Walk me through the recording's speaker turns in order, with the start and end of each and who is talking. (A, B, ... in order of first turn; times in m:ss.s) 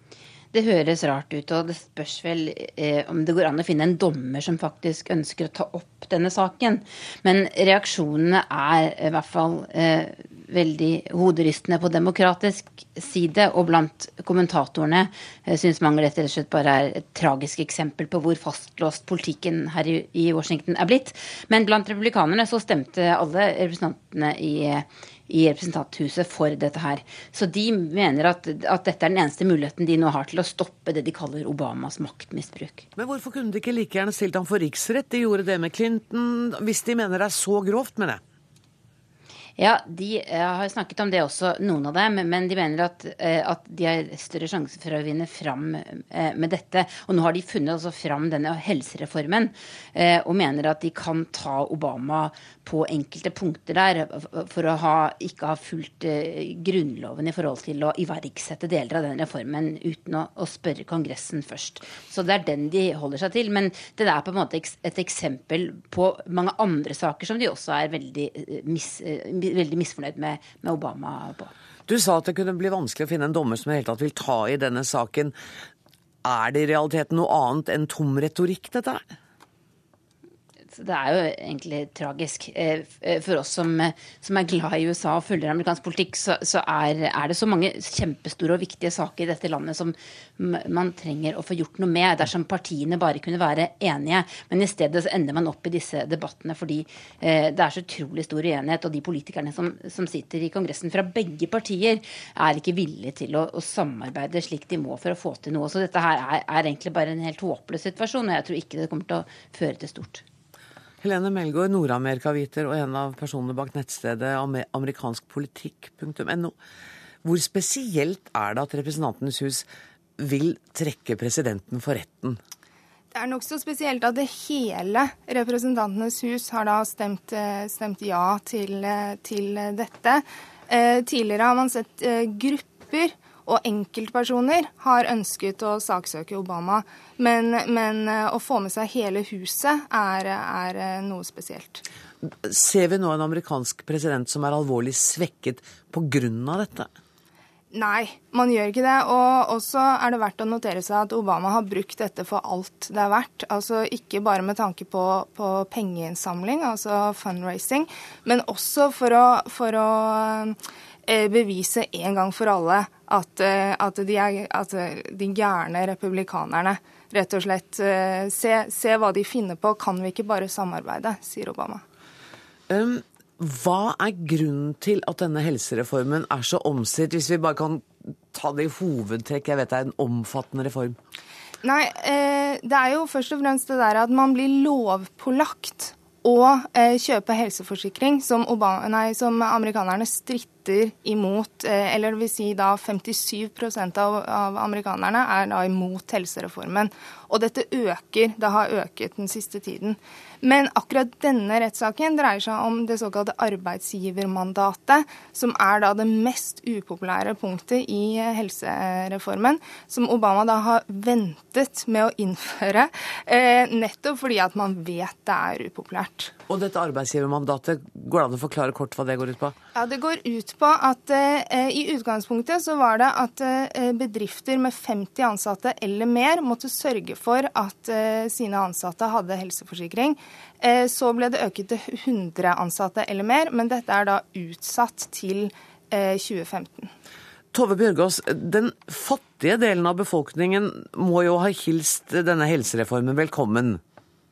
0:00.5-0:32.8 A
0:33.0-0:38.2 B
0:39.6-1:11.5 A
1:11.9-1:15.4 B
1:16.2-1:19.0 B
1:20.7-1:50.2 A
1:51.0-1:56.5 B
1:57.2-1:59.7 B
2:00.2-2:02.4 B
2:03.1-2:21.8 C
2:22.3-2:26.9 B
2:27.7-2:51.8 C
2:52.7-3:01.0 B
3:01.6-3:36.3 C
3:36.5-3:39.6 B
3:39.8-3:56.9 C
3:57.5-4:03.8 B